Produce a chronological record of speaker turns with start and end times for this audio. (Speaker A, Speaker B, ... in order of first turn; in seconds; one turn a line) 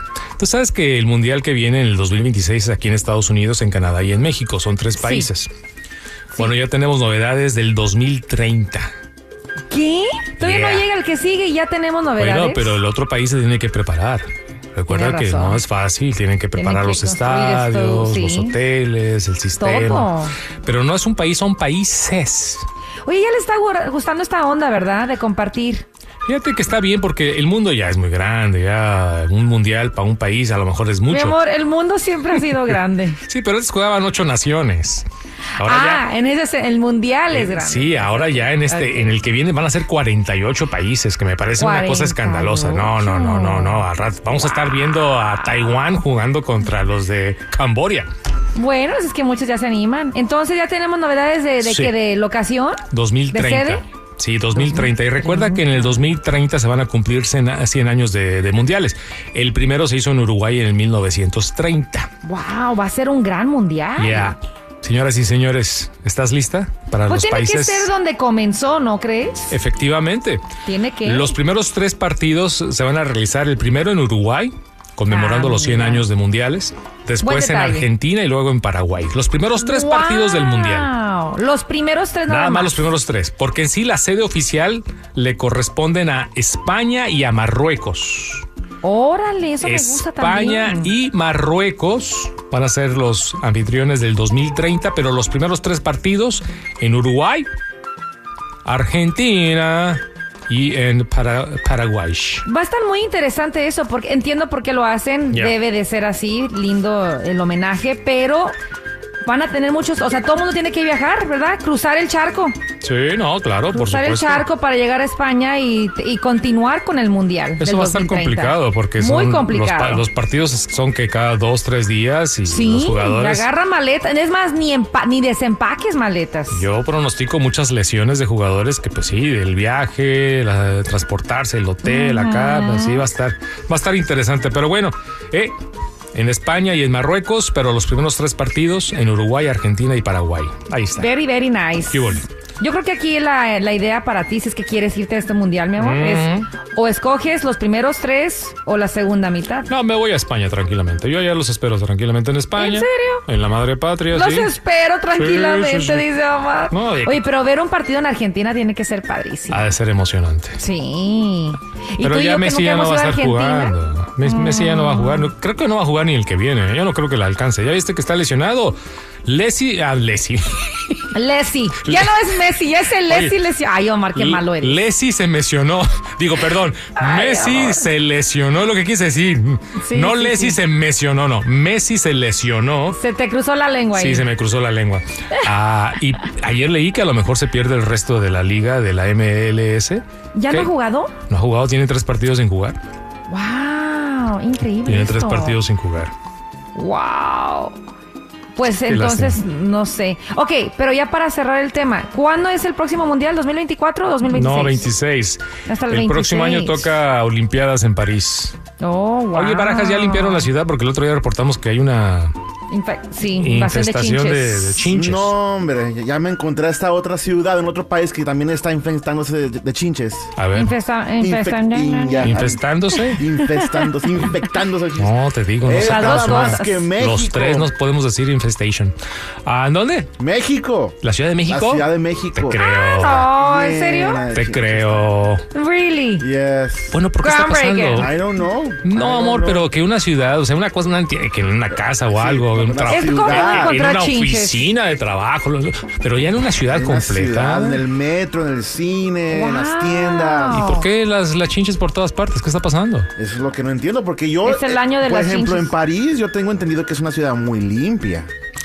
Speaker A: 0.4-5.5
Speaker B: 5.0-5.3
Speaker A: 6.4-8.9
Speaker B: 9.7-12.8
Speaker A: 10.4-10.9
Speaker A: 12.2-20.1
Speaker B: 14.9-15.6
Speaker B: 16.6-18.6
Speaker B: 19.6-20.3
Speaker A: 20.6-22.6
Speaker B: 23.0-25.8
Speaker A: 26.2-31.4
Speaker B: 31.1-33.2
Speaker A: 33.2-35.0
Speaker A: 35.6-36.0
Speaker B: 35.6-39.1
Speaker A: 37.3-48.1
Speaker B: 41.6-43.8
Speaker B: 48.5-53.8
Speaker A: 51.6-51.9
Speaker A: 52.9-62.1
Speaker B: 54.5-55.8
Speaker B: 62.2-64.3
Speaker A: 64.0-67.9
Speaker B: 67.1-69.6
Speaker A: 69.5-70.4
Speaker B: 70.6-71.3
Speaker A: 71.0-80.9
Speaker B: 75.1-76.1
Speaker B: 77.2-77.9
Speaker B: 79.6-82.8
Speaker A: 82.3-88.4
Speaker B: 88.8-90.9
Speaker A: 89.6-97.5
Speaker A: 98.6-102.4
Speaker B: 102.4-108.5
Speaker B: 109.2-112.6
Speaker A: 112.8-114.4
Speaker B: 113.7-120.0
Speaker A: 117.6-123.5
Speaker B: 122.5-126.6
Speaker A: 126.5-135.5
Speaker B: 131.8-133.1
Speaker A: 136.1-141.1
Speaker B: 141.0-149.7
Speaker A: 141.9-142.2
Speaker A: 145.8-146.5
Speaker A: 149.7-154.5
Speaker B: 152.6-153.2
Speaker B: 154.1-159.6
Speaker A: 155.1-156.1
Speaker A: 156.7-157.2
Speaker A: 159.5-160.6
Speaker B: 160.6-165.3
Speaker A: 162.0-171.1
Speaker B: 171.1-174.8
Speaker A: 171.8-173.3
Speaker A: 174.2-183.0
Speaker B: 176.9-177.8
Speaker B: 179.8-180.6
Speaker B: 182.9-184.3
Speaker A: 183.9-190.7
Speaker B: 190.3-191.1
Speaker A: 191.3-192.8
Speaker B: 193.3-195.6
Speaker A: 194.8-196.1
Speaker B: 196.7-197.8
Speaker B: 198.6-204.9
Speaker A: 198.8-199.4
Speaker A: 204.3-208.6
Speaker B: 205.7-206.9
Speaker B: 208.8-210.5
Speaker A: 209.3-212.3
Speaker B: 212.7-214.8
Speaker A: 213.2-215.3
Speaker C: 214.8-220.3
Speaker A: 220.4-220.7
Speaker B: 220.5-223.8
Speaker C: 221.2-227.7
Speaker A: 222.2-223.2
Speaker A: 225.0-230.1
Speaker B: 225.7-226.8
Speaker C: 230.2-230.9
Speaker A: 231.0-233.3
Speaker C: 231.5-232.6
Speaker B: 232.5-234.2
Speaker C: 233.3-235.1
Speaker A: 234.3-235.4
Speaker B: 235.5-236.2
Speaker C: 236.2-236.9
Speaker A: 236.9-238.2
Speaker B: 237.2-238.1
Speaker C: 237.9-239.7
Speaker A: 238.8-247.8
Speaker C: 241.8-243.8
Speaker B: 242.9-244.7
Speaker C: 246.7-250.8
Speaker B: 249.3-250.9
Speaker A: 250.5-253.1
Speaker C: 253.2-258.3
Speaker B: 254.4-255.7